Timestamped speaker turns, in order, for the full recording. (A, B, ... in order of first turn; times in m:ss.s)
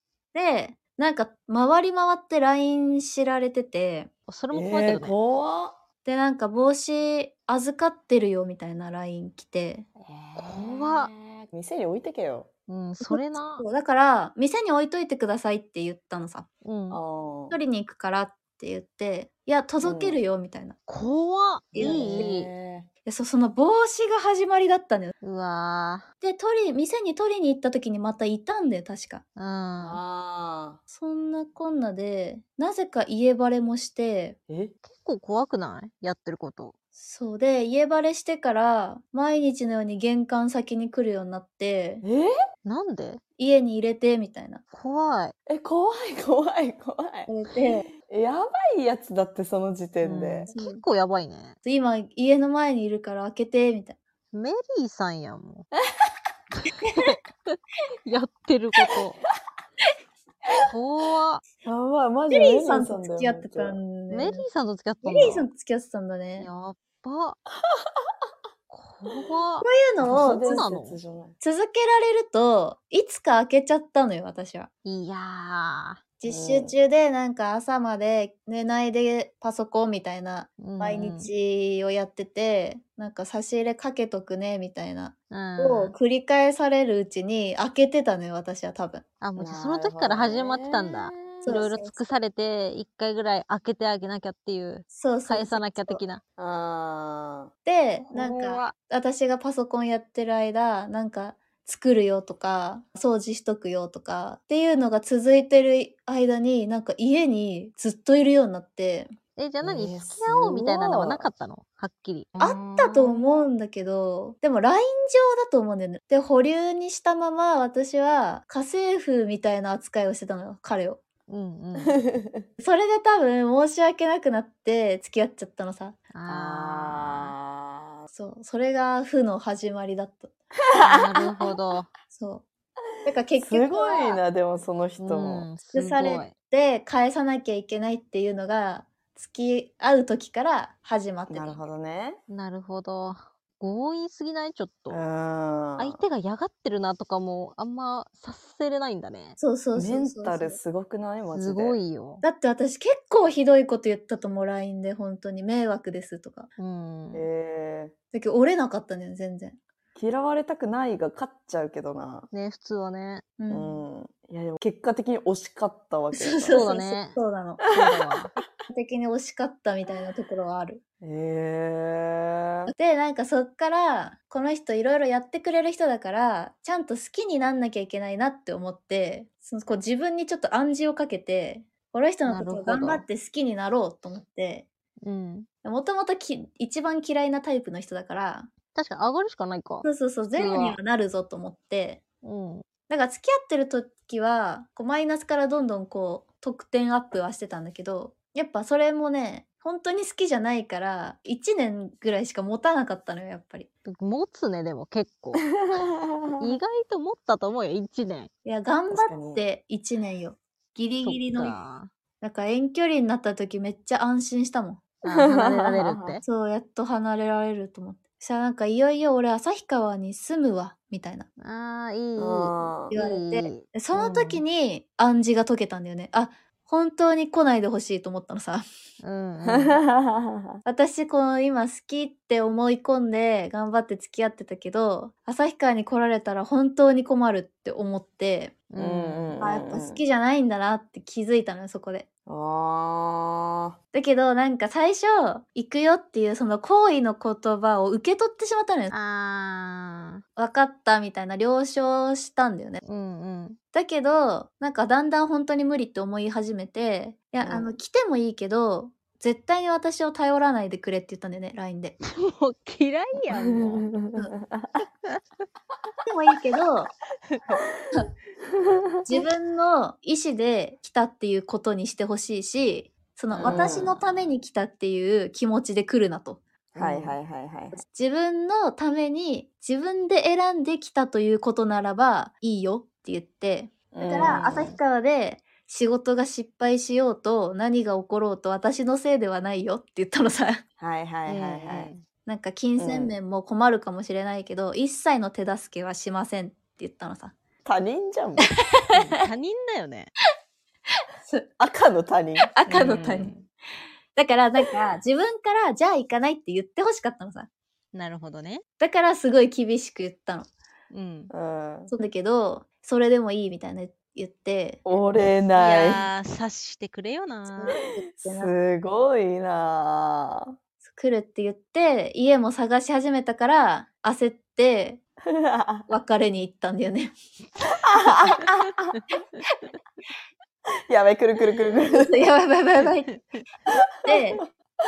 0:00.3-0:04.1 A
0:04.3-0:05.2 B
0:04.5-0:05.8 C
0:06.0-0:09.9 A
0:10.1-0:12.5 C
0:10.4-0:11.1 B
0:12.7-0:13.6 B
0:13.0-0:16.5 A
0:16.6-0:17.0 B
0:16.9-0:17.6 C
0:17.5-0:20.8 A
0:19.8-0:20.2 C
0:20.9-0:22.5 B
0:21.7-0:22.3 A
0:21.8-0:22.9 C
0:23.0-0:25.1 A
0:25.2-0:26.0 B
0:26.2-0:29.2 A
0:29.4-0:30.0 B
0:29.8-0:30.8 C
0:30.9-0:34.4 A
0:34.5-0:34.8 C
0:34.9-0:36.7 B
0:37.0-0:42.0 A
0:42.0-0:42.3 C
0:42.6-0:43.2 B
0:43.4-0:44.6 A
0:44.7-0:45.3 B
0:45.5-0:47.3 C
0:47.3-0:47.9 A
0:48.0-0:50.5 C
0:50.0-0:51.6 B
0:50.5-0:50.8 A
0:51.6-0:54.0 A
0:54.3-0:55.7 B
0:56.9-0:59.2 B
1:00.7-1:01.4 B
1:01.6-1:03.8 C
1:02.3-1:04.5 A
1:04.1-1:05.5 B
1:05.0-1:06.5 A
1:06.4-1:07.4 B
1:08.7-1:11.0 B
1:09.6-1:10.7 A
1:10.0-1:11.4 C
1:11.4-1:14.7 A
1:14.8-1:16.0 B
1:16.2-1:29.0 A
1:16.3-1:16.8 C
1:20.6-1:21.3 B
1:25.3-1:25.9 B
1:29.2-1:36.2 B
1:29.4-1:31.6 C
1:31.4-1:32.0 A
1:34.9-1:36.0 A
1:36.4-1:37.5 C
1:37.6-1:49.1 A
1:38.0-1:38.7 B
1:49.4-1:53.3 B
1:49.6-1:51.3 C
1:52.4-2:01.0 A
2:01.3-2:02.0 B
2:02.0-2:02.5 C
2:02.6-2:06.0 A
2:06.2-2:07.3 B
2:06.3-2:08.1 C
2:08.1-2:10.3 A
2:10.8-2:11.3 C
2:10.8-2:11.9 B
2:12.1-2:12.4 A
2:13.0-2:14.2 A
2:13.4-2:15.5 C
2:15.0-2:16.3 B
2:15.7-2:21.6 A
2:21.3-2:22.2 C
2:22.3-2:25.0 B
2:24.9-2:26.0 C
2:25.8-2:29.4 B
2:29.4-2:30.6 A
2:29.8-2:31.8 C
2:31.3-2:32.2 B
2:32.2-2:36.5 A
2:36.6-2:37.3 B
2:37.1-2:37.9 C
2:38.1-2:39.6 A
2:40.0-2:42.3 C
2:42.3-2:43.2 B
2:43.4-2:43.8 A
2:43.5-2:46.7 C
2:46.1-2:47.6 A
2:46.5-2:47.2 B
2:47.7-2:48.3 B
2:48.7-2:50.8 A
2:51.0-2:52.7 C
2:52.7-3:04.7 A
3:02.3-3:03.0 B
3:05.0-3:05.5 B
3:05.6-3:08.5 A
3:08.8-3:10.8 B
3:09.8-3:12.0 A
3:12.2-3:12.6 B
3:12.9-3:23.7 A
3:23.8-3:25.5 B
3:25.6-3:26.4 C
3:26.4-3:28.3 B
3:28.4-3:31.6 A
3:28.9-3:29.4 C
3:31.0-3:31.9 B
3:32.2-3:34.8 A
3:35.0-3:36.2 B
3:35.1-3:36.2 C
3:36.2-3:41.3 A
3:41.4-3:44.4 B
3:42.2-3:43.0 C
3:42.9-3:48.6 A
3:49.0-3:49.8 B
3:49.5-3:50.5 C
3:50.6-3:58.6 A
3:58.7-3:59.4 B
3:58.8-4:00.0 C
3:59.4-4:02.1 A
4:02.3-4:03.7 C
4:03.9-4:08.9 A
4:08.9-4:10.2 B
4:10.4-4:12.8 A
4:12.8-4:13.6 B
4:13.7-4:22.0 A
4:17.4-4:17.8 C
4:22.1-4:23.9 B
4:23.3-4:24.8 C
4:26.1-4:26.9 A
4:29.0-4:37.1 A
4:33.3-4:33.8 B
4:33.4-4:34.0 C
4:36.8-4:37.1 B
4:36.8-4:37.8 C
4:37.7-4:50.6 A
4:43.9-4:44.7 C
4:44.2-4:44.7 B
4:50.8-4:51.9 C
4:51.3-4:52.0 B
4:51.7-4:57.4 A
4:52.8-4:53.2 C
4:57.6-4:58.5 C
4:58.9-5:00.1 B
5:01.6-5:02.5 C
5:02.5-5:03.3 A
5:02.7-5:03.5 B
5:04.2-5:07.5 A
5:07.9-5:08.6 B
5:08.8-5:10.5 A
5:10.9-5:11.3 B
5:11.3-5:11.9 C
5:11.9-5:14.8 A
5:14.8-5:16.0 C
5:15.5-5:17.8 B
5:17.5-5:18.5 A
5:18.0-5:20.5 C
5:20.9-5:25.0 A
5:25.3-5:25.9 C
5:25.9-5:27.2 A
5:27.9-5:28.9 C
5:30.9-5:32.3 C
5:31.9-5:33.1 A
5:34.0-5:34.4 A